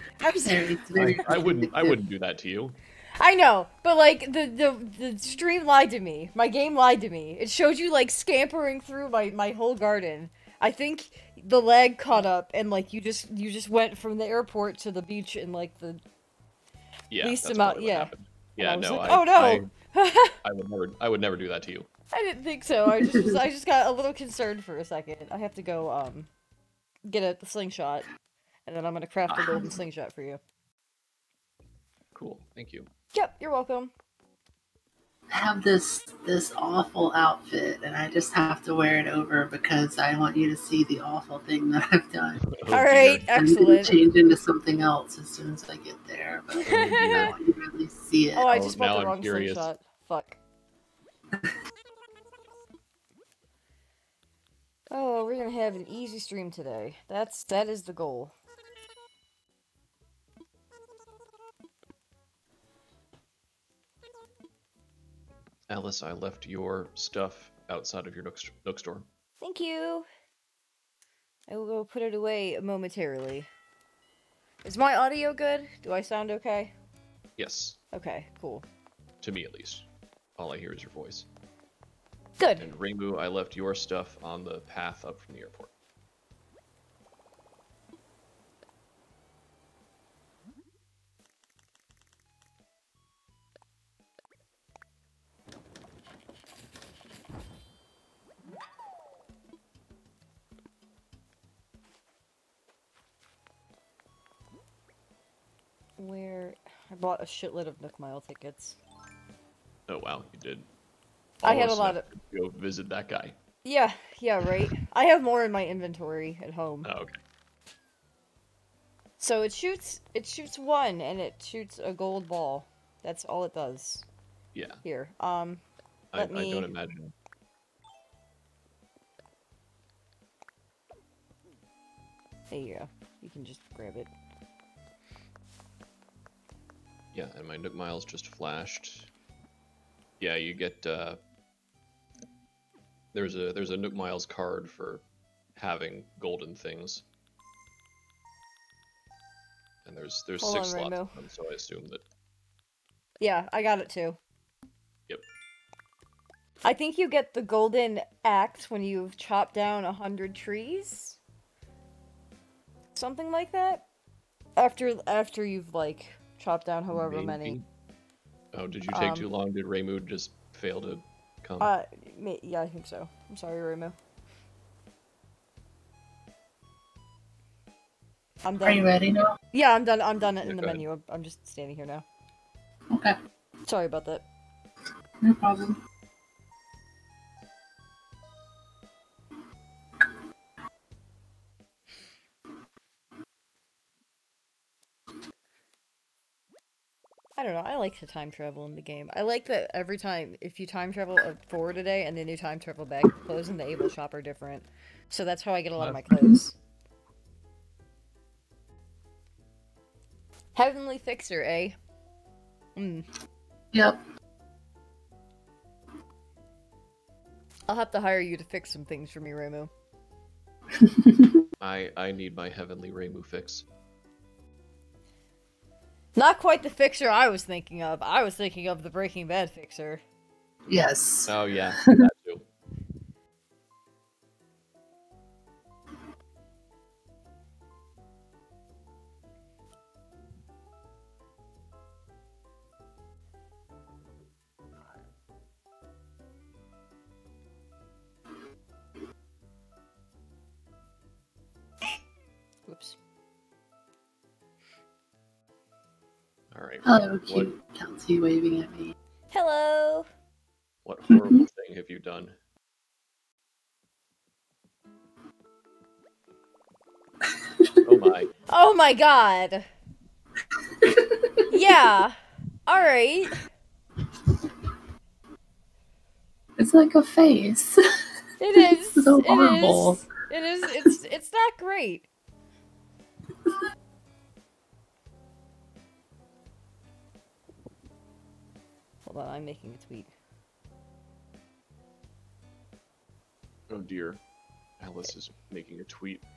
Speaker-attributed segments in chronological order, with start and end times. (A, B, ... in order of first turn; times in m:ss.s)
0:00.2-0:01.4 A
0:00.4-0:02.0 B
0:01.0-0:02.8 C
0:03.2-0:16.0 A
0:17.1-0:19.7 C
0:17.2-0:20.4 A
0:20.4-0:21.9 C
0:22.1-0:26.3 A
0:23.0-0:23.4 B
0:27.0-0:28.1 A
0:28.6-0:30.4 A
0:29.3-0:29.7 C
0:32.1-0:32.9 C
0:33.1-0:33.9 A
0:35.3-0:42.4 B
0:42.4-0:43.3 C
0:42.7-0:44.0 A
0:43.3-0:48.5 B
0:46.6-0:47.3 A
0:46.6-0:47.4 C
0:48.3-0:50.4 A
0:48.5-0:49.7 C
0:54.9-0:58.3 A
1:05.7-1:09.0 C
1:09.4-1:10.1 A
1:11.5-1:13.5 A
1:14.6-1:16.7 A
1:17.4-1:17.8 C
1:17.9-1:18.6 A
1:19.2-1:19.8 C
1:20.4-1:21.3 C
1:22.4-1:22.7 A
1:22.6-1:25.7 C
1:46.0-1:48.8 A
1:49.9-1:50.7 C
1:51.4-1:53.4 C
1:51.4-1:52.0 A
1:53.6-1:56.9 A
1:56.8-1:57.2 C
1:59.2-2:04.1 A
2:04.5-2:04.8 C
2:04.8-2:05.6 A
2:06.1-2:07.1 C
2:06.1-2:06.7 A
2:12.5-2:14.1 A
2:17.1-2:19.1 C
2:20.2-2:21.2 C
2:23.1-2:25.0 C
2:25.6-2:27.0 C
2:29.8-2:32.0 C
2:30.4-2:31.1 A
2:33.2-2:34.2 A
2:36.6-2:41.2 A
2:42.9-2:43.8 A
2:44.6-2:47.6 A
2:46.9-2:47.6 C
2:48.5-2:51.7 C
2:48.9-2:49.3 A
2:51.6-2:54.0 A
2:58.4-2:58.9 A
2:58.6-2:59.3 B
2:59.5-3:02.0 A
3:00.4-3:00.8 C
3:02.9-3:03.1 B
3:03.6-3:04.2 A
3:05.2-3:05.8 B
3:17.4-3:26.5 A
3:25.8-3:26.3 C
3:30.5-3:31.8 A
3:32.8-3:33.1 A
3:33.7-3:34.0 B
3:37.7-3:39.7 A
3:40.7-3:41.4 B
3:41.6-3:43.6 C
3:46.2-3:50.0 A
3:50.7-3:51.6 B
3:51.3-3:52.4 C
4:12.7-4:13.0 A
4:16.5-4:17.5 C
4:16.8-4:18.9 B
4:19.3-4:20.1 A
4:20.8-4:22.4 C
4:27.4-4:27.8 B
4:27.8-4:28.3 C
4:28.5-4:29.7 A
4:30.8-4:31.4 B
4:31.5-4:33.4 A
4:36.6-4:37.8 B
4:38.4-4:42.1 A
4:39.0-4:40.0 B
4:49.0-4:50.1 A
4:53.7-4:54.2 C
4:54.8-4:56.2 C